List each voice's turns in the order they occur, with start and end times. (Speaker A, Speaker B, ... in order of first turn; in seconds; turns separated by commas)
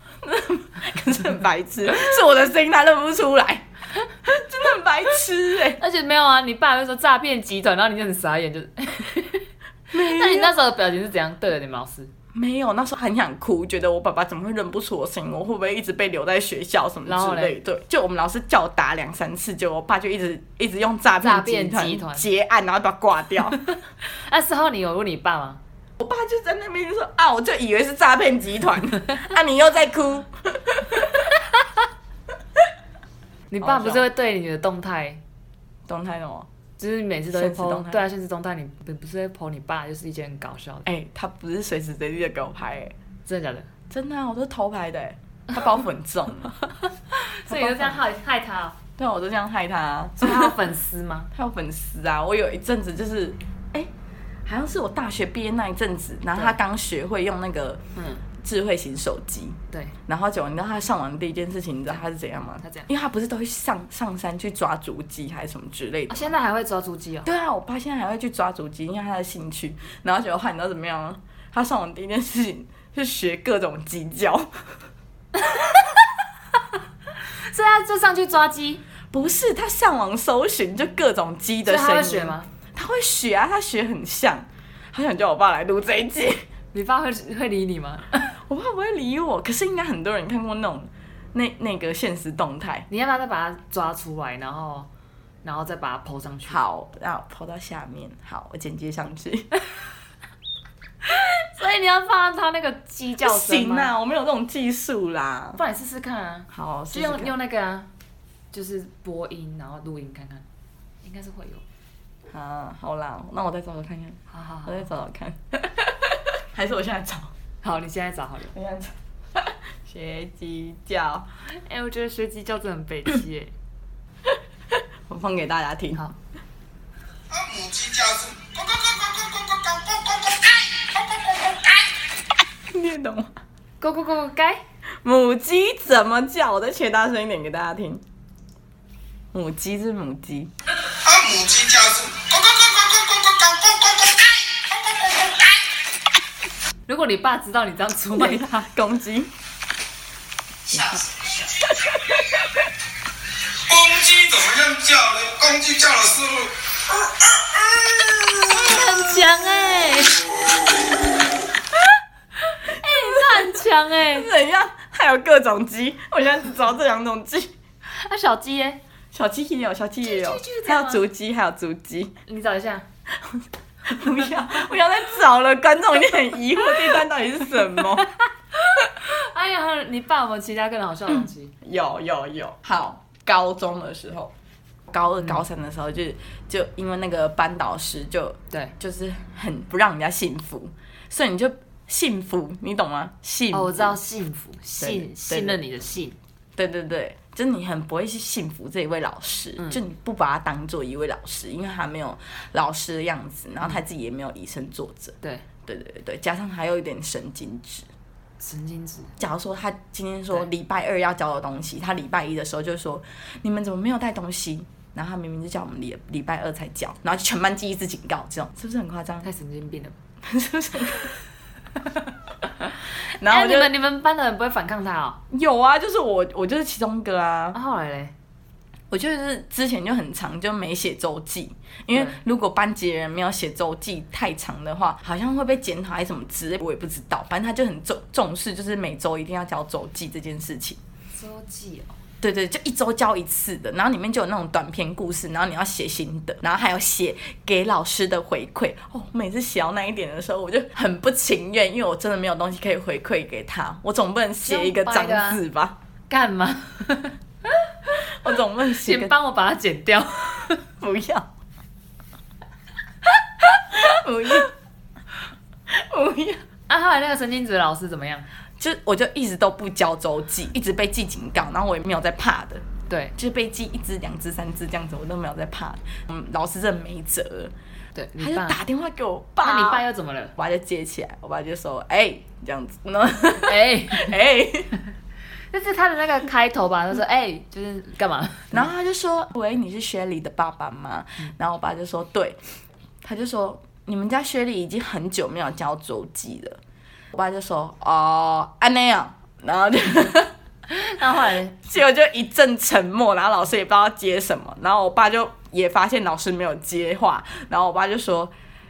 Speaker A: 0.2-3.7, Speaker A: 4.2-5.8, Speaker B: 5.8-12.1, Speaker A: 9.9-10.5, Speaker A: 12.3-23.6, Speaker B: 17.0-17.6, Speaker B: 21.2-22.3, Speaker B: 24.1-25.6, Speaker A: 26.0-31.4, Speaker B: 33.5-35.2, Speaker A: 33.6-34.1, Speaker A: 35.9-36.5, Speaker B: 36.8-40.9, Speaker A: 37.3-38.0, Speaker A: 40.8-42.9, Speaker B: 43.2-43.7, Speaker A: 43.9-46.6, Speaker B: 47.2-48.8, Speaker A: 47.5-48.0, Speaker A: 49.0-50.5, Speaker B: 50.2-51.3, Speaker A: 51.3-53.9, Speaker A: 54.4-57.8, Speaker B: 58.0-58.2, Speaker A: 58.4-66.3, Speaker B: 62.6-62.9, Speaker B: 66.1-67.3, Speaker A: 67.2-74.5, Speaker B: 75.3-75.9, Speaker B: 77.5-78.8, Speaker A: 79.1-86.4, Speaker B: 81.7-82.5, Speaker B: 86.7-88.3, Speaker A: 88.5-92.9, Speaker B: 92.9-94.9, Speaker B: 95.4-96.6, Speaker A: 96.5-99.5, Speaker B: 101.3-103.9, Speaker A: 103.2-105.6, Speaker B: 105.6-107.9, Speaker A: 106.5-107.3, Speaker B: 108.5-110.4, Speaker B: 111.0-111.6, Speaker A: 112.3-117.3, Speaker B: 114.3-114.8, Speaker B: 117.6-118.5, Speaker A: 118.5-121.3, Speaker B: 121.6-123.5, Speaker A: 124.7-126.0, Speaker C: 127.3-131.8, Speaker A: 132.7-133.4, Speaker B: 133.8-134.6, Speaker A: 135.0-138.0, Speaker A: 139.3-140.5, Speaker C: 141.0-145.5, Speaker B: 146.9-148.7, Speaker A: 148.1-149.3, Speaker A: 150.7-151.0, Speaker C: 150.7-151.5, Speaker C: 153.6-158.2, Speaker B: 158.5-160.2, Speaker B: 162.7-164.3, Speaker A: 162.8-167.5, Speaker B: 167.9-168.8, Speaker A: 169.1-172.1, Speaker B: 170.0-171.0, Speaker B: 172.3-172.8, Speaker A: 173.2-178.1, Speaker B: 178.7-181.5, Speaker A: 181.1-184.3, Speaker A: 184.9-194.0, Speaker B: 193.5-196.2, Speaker A: 194.8-195.6, Speaker A: 196.6-207.9, Speaker B: 208.4-209.1, Speaker A: 209.2-219.3, Speaker B: 219.2-219.9, Speaker A: 220.2-221.1, Speaker A: 223.2-223.7, Speaker B: 223.2-225.2, Speaker A: 225.3-227.6, Speaker B: 227.5-228.1, Speaker A: 228.9-240.8, Speaker B: 231.9-232.2, Speaker B: 241.2-242.0, Speaker A: 242.2-255.8, Speaker B: 254.4-255.4, Speaker B: 256.1-257.1, Speaker A: 258.1-259.1, Speaker B: 258.8-260.6, Speaker A: 260.8-261.3, Speaker A: 263.4-264.5, Speaker A: 265.7-266.4, Speaker B: 266.7-268.3, Speaker A: 268.6-272.6, Speaker B: 272.9-273.1, Speaker A: 273.1-277.5, Speaker B: 277.9-278.6, Speaker A: 278.2-279.8, Speaker B: 279.4-280.3, Speaker A: 280.4-284.7, Speaker B: 283.4-284.2, Speaker B: 285.5-288.7, Speaker A: 288.5-292.4, Speaker A: 293.0-296.6, Speaker A: 297.1-300.3, Speaker B: 300.7-301.7, Speaker A: 301.7-308.3